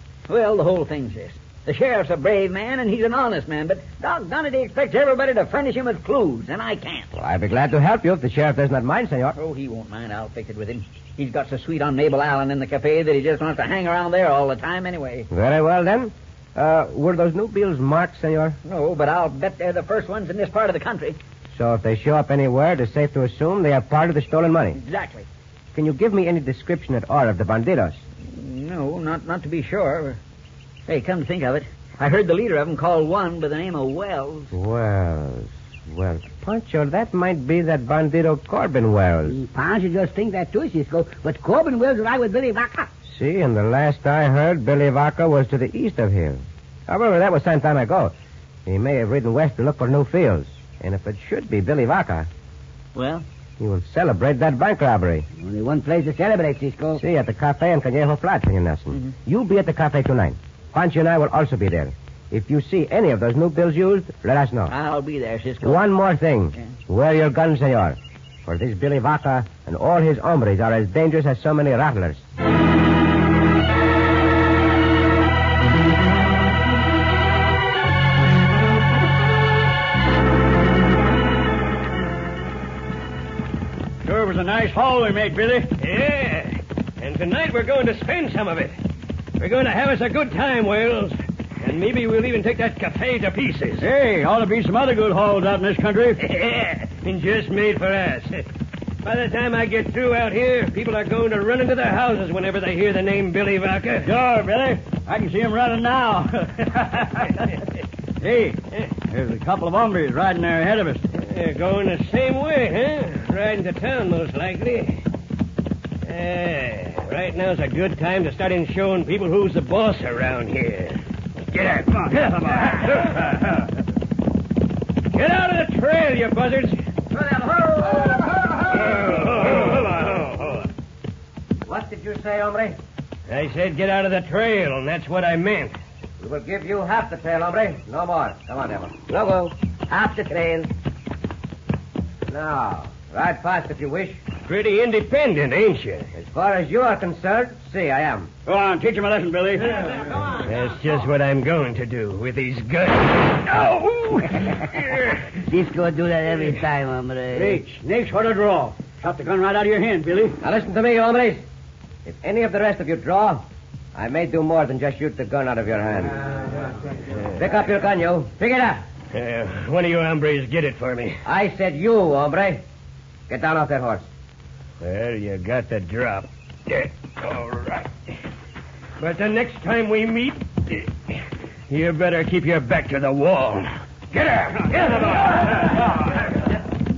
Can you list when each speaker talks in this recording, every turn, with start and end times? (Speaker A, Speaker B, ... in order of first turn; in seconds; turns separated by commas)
Speaker A: 0.3-7.1, Speaker B: 7.1-9.3, Speaker A: 9.3-15.3, Speaker B: 15.3-18.6, Speaker A: 18.6-21.2, Speaker B: 21.5-24.8, Speaker A: 24.8-25.3, Speaker B: 25.7-28.0, Speaker A: 28.2-30.2, Speaker A: 30.9-34.5, Speaker B: 34.5-39.4, Speaker C: 39.3-42.9, Speaker B: 43.0-48.1, Speaker B: 48.6-52.3, Speaker A: 52.9-53.2, Speaker B: 53.6-55.3, Speaker C: 55.4-57.0, Speaker B: 57.0-64.7, Speaker A: 64.7-65.8, Speaker B: 65.6-72.2, Speaker D: 84.0-85.7, Speaker E: 85.8-88.7, Speaker E: 89.4-93.9, Speaker D: 93.8-96.2, Speaker E: 96.2-98.5, Speaker E: 99.0-104.1, Speaker D: 104.0-107.5, Speaker D: 108.2-111.1, Speaker E: 111.1-115.0, Speaker E: 116.0-123.7, Speaker E: 125.1-126.8, Speaker B: 127.1-129.7, Speaker E: 128.7-130.7, Speaker B: 131.6-132.8, Speaker E: 133.3-135.7, Speaker B: 136.2-140.7, Speaker B: 142.3-144.2, Speaker E: 144.4-146.1, Speaker B: 146.1-148.3, Speaker D: 148.4-149.8, Speaker E: 150.3-155.3, Speaker C: 155.4-157.6, Speaker D: 157.3-160.4, Speaker B: 160.4-161.4, Speaker B: 162.0-166.5, Speaker B: 167.3-168.8, Speaker E: 169.1-171.2, Speaker B: 171.2-172.6, Speaker B: 173.3-174.1, Speaker E: 174.8-177.9, Speaker E: 179.0-183.7, Speaker D: 184.1-185.7